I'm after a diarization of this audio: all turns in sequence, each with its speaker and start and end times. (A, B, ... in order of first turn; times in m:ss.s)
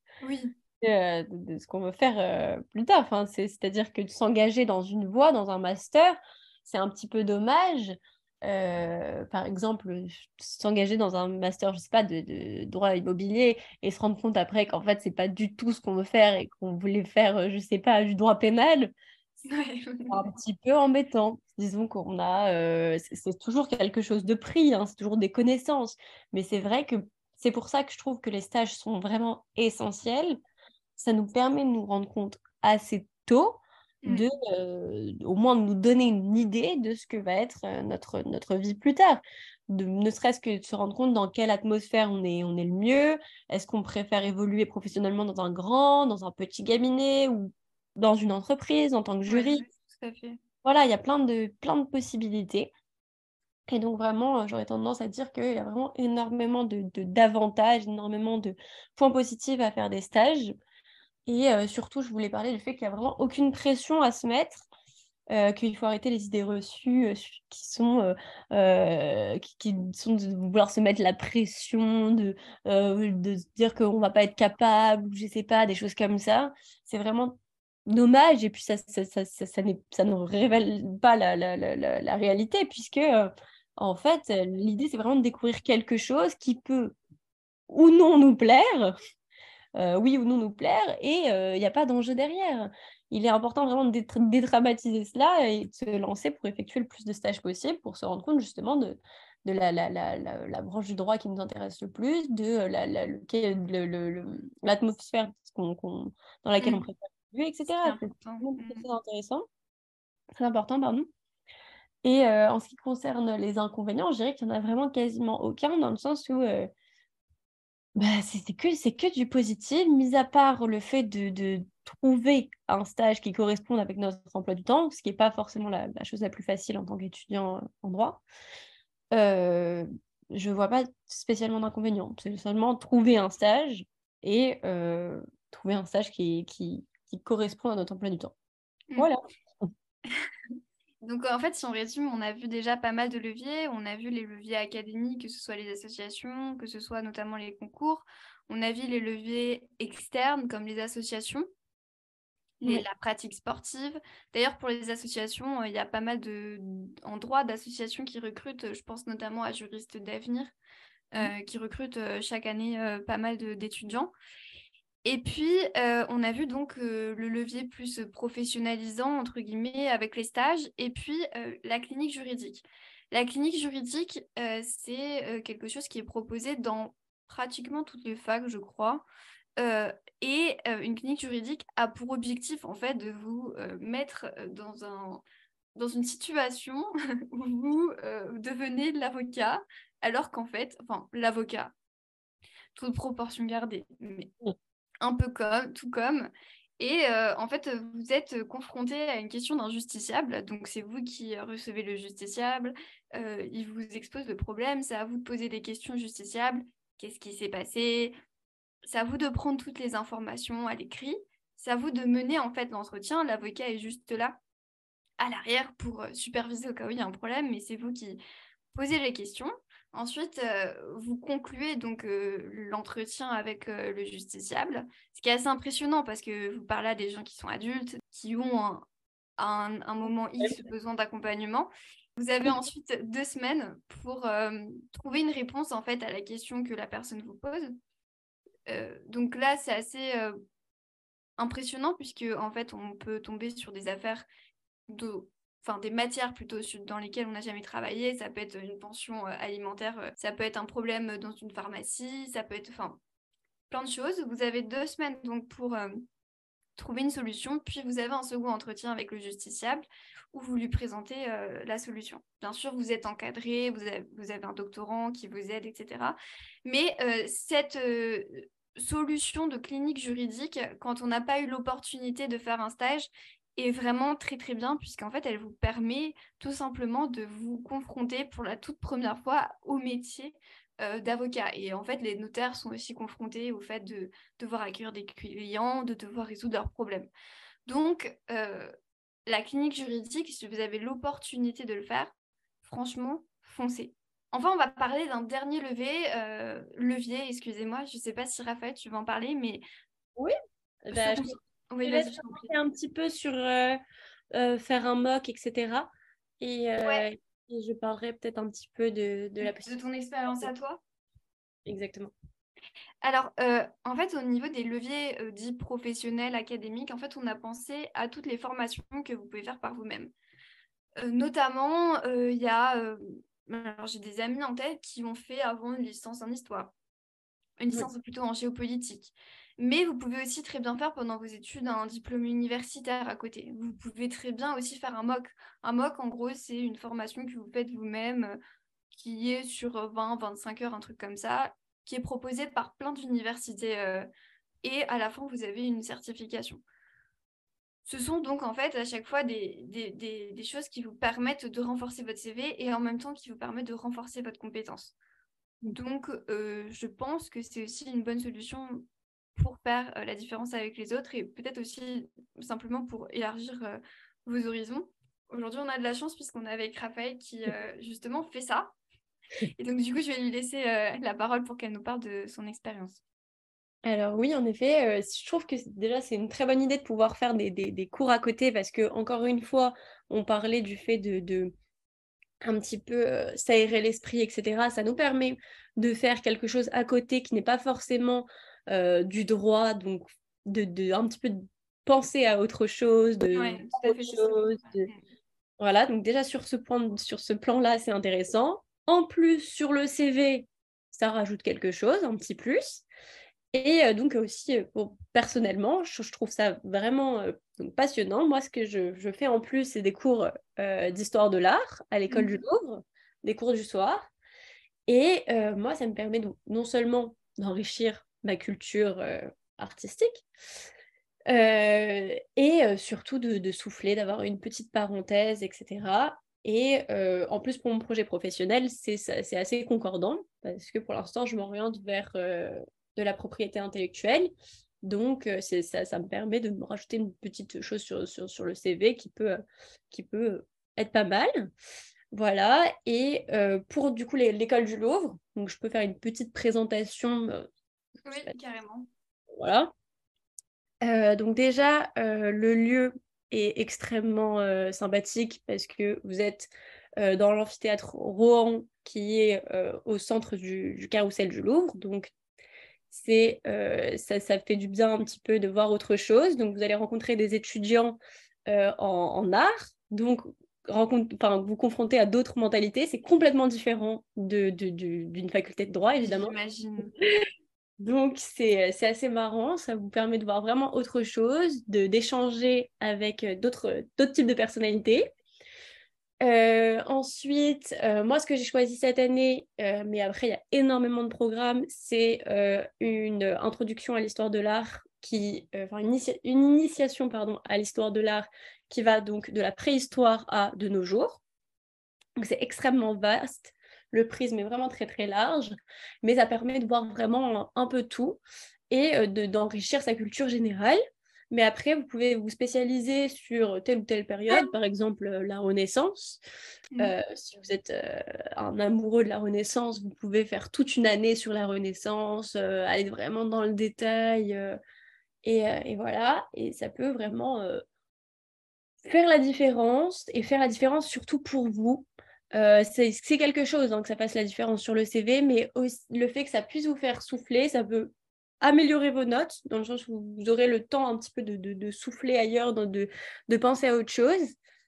0:00.2-0:00.5 A
0:00.8-0:18.9 B
0:19.4-0:20.2 A
0:20.1-0:30.4 B
0:31.0-0:49.6 B
0:49.3-0:50.4 A
0:50.6-0:52.7 B
0:53.7-1:00.5 B
1:01.3-1:04.6 B
1:05.3-1:17.4 B
1:17.9-1:27.0 B
1:27.7-1:28.9 B
1:29.8-1:49.4 B
1:46.6-1:46.8 A
1:47.8-1:48.9 A
1:50.3-1:51.0 B
1:52.0-1:56.7 B
1:58.0-2:08.2 B
2:09.1-2:18.3 B
2:21.0-2:31.5 A
2:32.6-2:40.5 A
2:41.1-2:44.1 A
2:45.0-2:59.0 A
2:59.6-3:05.2 A
3:05.8-3:11.7 A
3:12.8-3:14.3 A
3:15.0-3:28.1 A
3:28.8-3:34.4 A
3:35.2-3:38.2 A
3:38.7-3:48.8 A
3:49.4-3:57.7 A
3:58.7-4:00.3 A
4:01.4-4:04.2 A
4:04.9-4:13.0 A
4:13.7-4:16.0 A
4:16.8-4:47.1 A
4:47.6-4:48.7 A
4:49.3-4:59.6 A
5:00.8-5:03.8 B
5:00.9-5:02.5 A
5:04.3-5:09.8 B
5:09.4-5:10.8 A
5:11.6-5:12.1 B
5:13.0-5:20.1 A
5:21.0-5:26.7 A
5:27.6-5:38.4 A
5:38.9-5:44.1 A
5:44.6-5:46.6 A
5:47.8-5:55.0 A
5:55.7-5:58.8 A
5:59.4-6:08.7 A
6:09.6-6:13.0 A
6:13.8-6:21.5 B
6:22.4-6:34.9 B
6:33.3-6:35.0 A
6:35.6-6:42.8 B
6:43.5-6:54.1 B
6:52.1-6:52.4 A
6:54.9-7:00.2 B
7:01.3-7:14.3 B
7:14.8-7:21.5 B
7:22.1-7:27.4 B
7:28.0-7:28.9 A
7:29.4-7:29.7 B
7:30.8-7:42.1 B
7:42.9-7:56.3 B
7:56.0-7:56.9 A
7:57.8-8:05.0 B
8:06.2-8:21.2 B
8:22.2-8:28.2 B
8:28.7-8:30.8 B
8:31.3-8:36.2 B
8:36.8-8:44.6 B
8:45.2-8:47.6 B
8:48.8-9:04.4 B